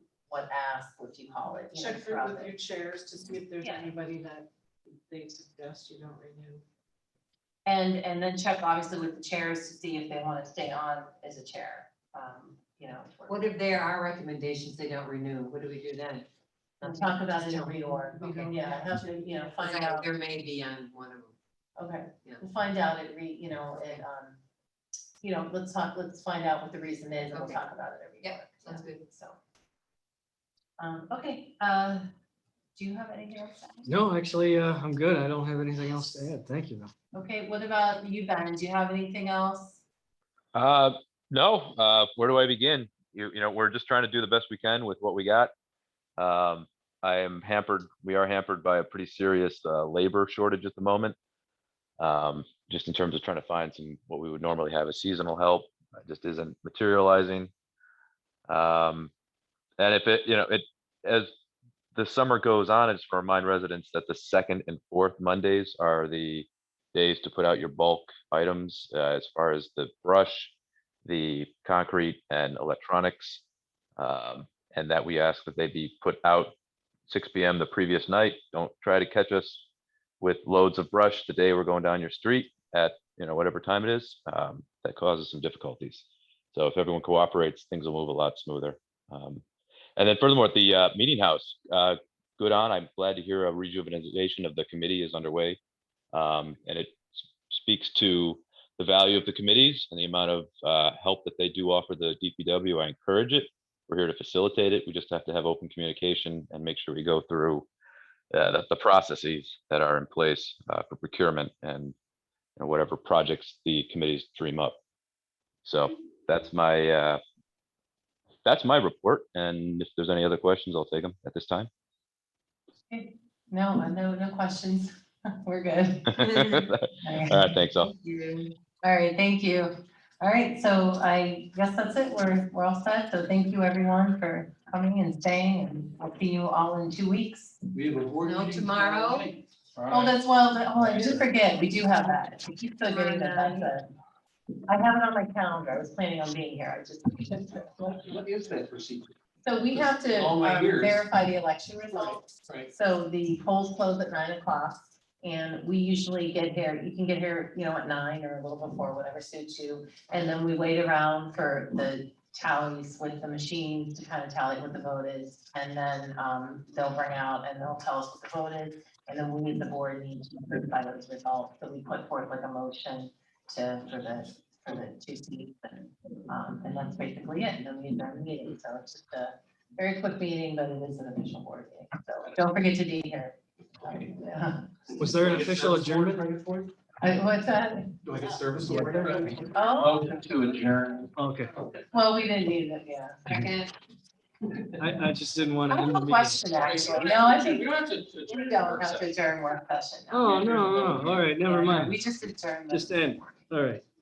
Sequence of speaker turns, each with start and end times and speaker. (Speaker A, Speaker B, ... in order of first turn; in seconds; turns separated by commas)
Speaker A: 0.3-2.5, Speaker B: 1.7-6.6, Speaker A: 3.6-4.0, Speaker A: 7.7-13.4, Speaker C: 13.3-16.3, Speaker C: 16.8-18.4, Speaker A: 16.8-20.1, Speaker B: 18.2-19.5, Speaker C: 19.6-21.3, Speaker A: 21.8-24.4, Speaker A: 25.2-29.4, Speaker C: 27.3-27.7, Speaker C: 28.2-29.1, Speaker A: 30.8-32.1, Speaker A: 32.8-33.9, Speaker D: 33.9-36.9, Speaker A: 37.1-39.8, Speaker E: 40.5-45.5, Speaker E: 46.2-51.2, Speaker E: 52.0-57.5, Speaker E: 58.5-59.1, Speaker E: 59.8-61.3, Speaker E: 62.0-70.5, Speaker E: 71.0-73.4, Speaker E: 74.0-76.5, Speaker E: 77.1-79.7, Speaker E: 80.2-89.4, Speaker E: 90.0-95.6, Speaker E: 96.1-107.7, Speaker E: 108.3-112.0, Speaker E: 112.6-114.8, Speaker E: 115.7-117.2, Speaker E: 118.5-121.7, Speaker A: 122.9-124.9, Speaker A: 125.4-127.5, Speaker E: 126.2-127.9, Speaker C: 127.8-128.5, Speaker A: 128.8-137.6, Speaker F: 137.8-140.1, Speaker C: 138.2-139.3, Speaker A: 139.9-143.8, Speaker F: 140.8-141.2, Speaker C: 142.9-143.7, Speaker A: 144.7-148.0, Speaker F: 148.0-149.1, Speaker A: 149.4-184.7, Speaker F: 149.7-151.0, Speaker F: 152.1-152.7, Speaker D: 185.0-186.2, Speaker F: 185.1-186.7, Speaker A: 187.0-187.9, Speaker F: 188.0-191.7, Speaker D: 188.7-189.3, Speaker A: 189.5-190.1, Speaker D: 191.2-191.5, Speaker A: 191.9-193.2, Speaker C: 193.3-193.7, Speaker D: 194.8-196.5, Speaker A: 195.7-203.3, Speaker F: 196.5-199.1, Speaker D: 200.1-202.0, Speaker F: 200.3-201.2, Speaker D: 202.7-203.8